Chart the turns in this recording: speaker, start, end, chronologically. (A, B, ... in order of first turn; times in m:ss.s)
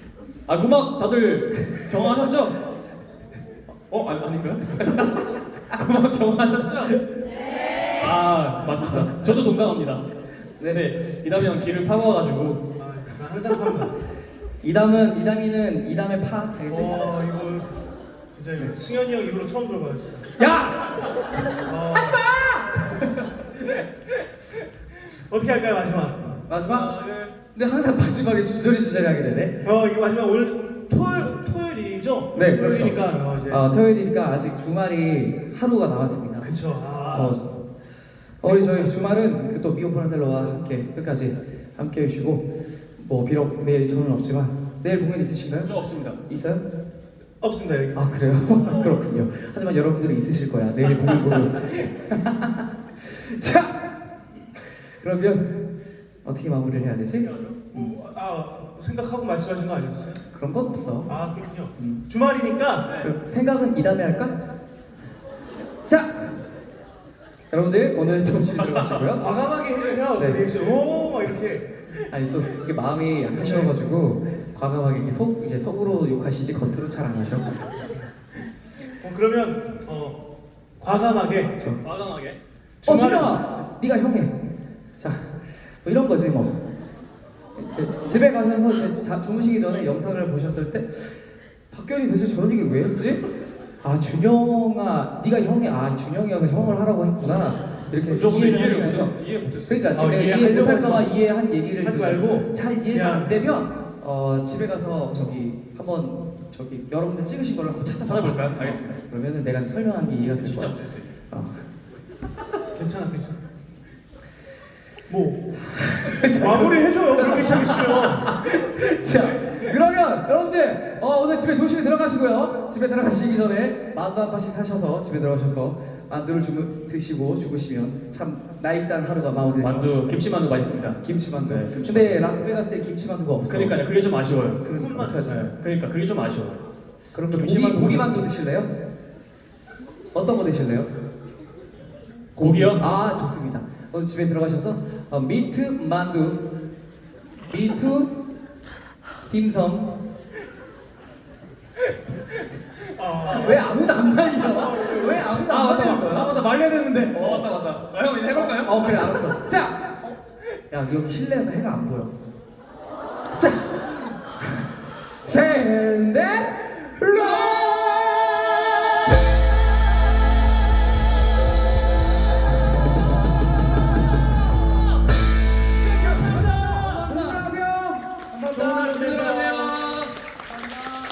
0:00.5-0:02.6 A
0:03.9-0:07.0 A
0:08.0-0:10.0 A
0:10.6-0:12.6 A
0:12.8-0:13.9 B
0:14.6-0:17.1 C
0:16.7-0:17.7 B
0:18.3-0:20.3 B
0:20.4-0:20.9 C
0:21.6-0:22.2 B
0:22.1-0:23.0 C
0:25.0-0:26.4 B
0:26.5-0:26.9 C
0:26.6-0:27.3 A
0:27.5-0:29.6 C
0:29.6-0:33.7 B
0:32.3-0:36.5 C
0:36.4-0:37.4 B
0:36.9-0:37.3 A
0:37.1-0:37.5 C
0:38.4-0:45.7 C
0:38.4-0:38.9 B
0:45.6-0:46.2 A
0:46.2-0:46.6 C
0:47.4-0:48.0 B
0:47.9-0:53.8 C
0:54.8-0:55.6 C
0:56.2-0:57.9 C
0:57.7-1:00.2 B
1:00.3-1:01.1 C
1:01.1-1:03.0 B
1:01.8-1:02.0 C
1:03.0-1:04.3 C
1:05.9-1:06.4 C
1:07.5-1:09.3 C
1:09.2-1:11.7 B
1:10.2-1:10.4 C
1:12.1-1:17.6 C
1:13.3-1:13.7 B
1:19.0-1:20.2 B
1:20.8-1:21.6 B
1:21.8-1:22.4 A
1:22.8-1:23.4 B
1:22.8-1:24.4 C
1:25.0-1:26.6 C
1:27.6-1:31.2 C
1:31.7-1:33.3 C
1:33.8-1:39.1 C
1:38.1-1:40.1 A
1:39.7-1:50.8 C
1:39.9-1:41.1 B
1:41.8-1:43.3 B
1:48.0-1:49.0 A
1:50.4-1:51.1 A
1:51.3-1:51.6 C
1:52.7-1:53.4 B
1:55.1-1:55.5 B
1:55.6-2:10.2 C
1:56.3-1:58.3 B
2:09.6-2:12.2 A
2:11.0-2:13.8 C
2:13.4-2:14.6 A
2:14.6-2:15.5 C
2:14.7-2:15.4 B
2:15.2-2:16.6 A
2:17.1-2:18.7 C
2:17.3-2:18.3 A
2:20.1-2:20.9 C
2:22.4-2:22.8 A
2:22.6-2:26.5 C
2:27.5-2:28.2 C
2:29.3-2:30.0 C
2:32.9-2:33.7 B
2:33.3-2:36.4 C
2:34.4-2:35.3 B
2:35.4-2:39.3 A
2:37.2-2:37.4 C
2:38.6-2:39.8 C
2:40.7-2:42.1 C
2:43.3-2:44.6 C
2:45.2-2:48.9 C
2:55.9-2:57.4 A
2:56.2-2:59.8 C
2:58.5-2:59.6 B
2:58.6-3:00.1 A